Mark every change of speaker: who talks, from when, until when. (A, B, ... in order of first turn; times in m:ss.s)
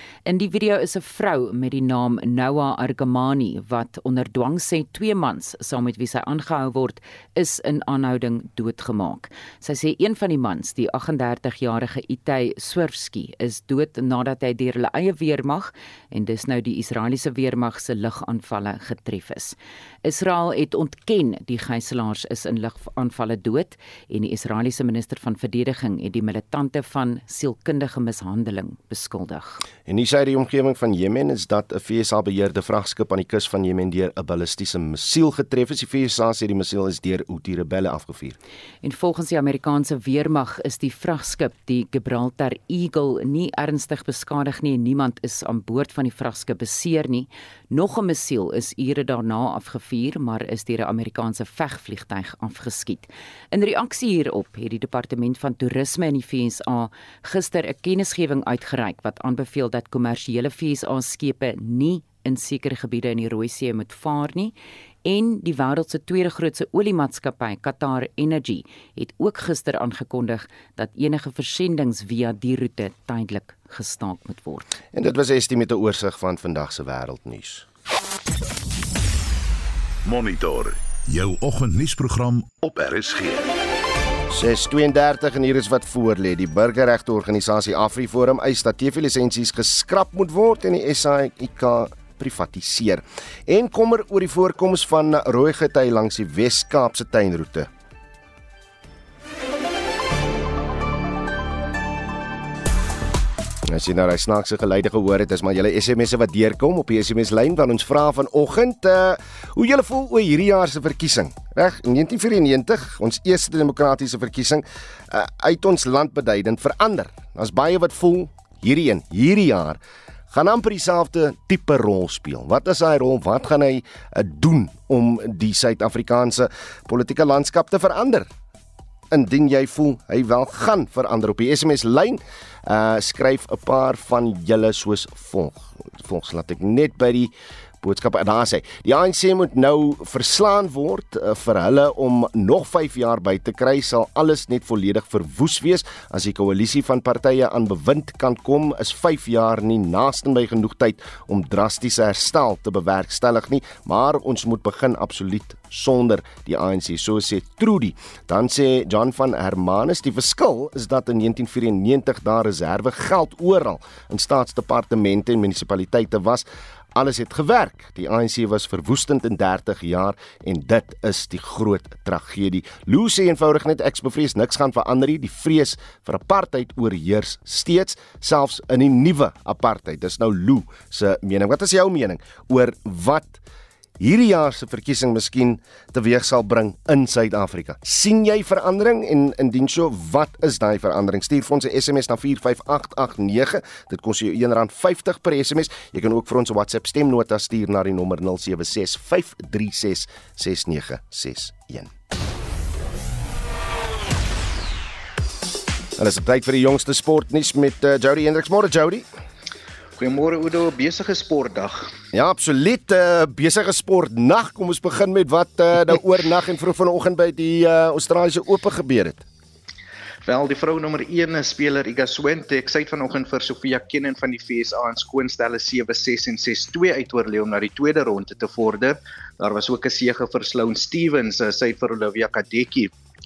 0:00.3-0:29.6 A
0:29.9-0:38.4 B
0:38.8-1:04.5 A
1:05.0-1:14.7 A
1:14.9-1:17.7 B
1:20.0-1:23.5 C
1:24.3-1:37.7 B
1:43.7-1:59.8 B
2:00.3-2:08.3 B
2:09.1-3:03.4 B
3:04.0-3:21.9 B
3:26.0-3:29.1 B
3:30.0-3:31.9 D
3:32.1-3:39.3 B
3:40.2-3:52.9 D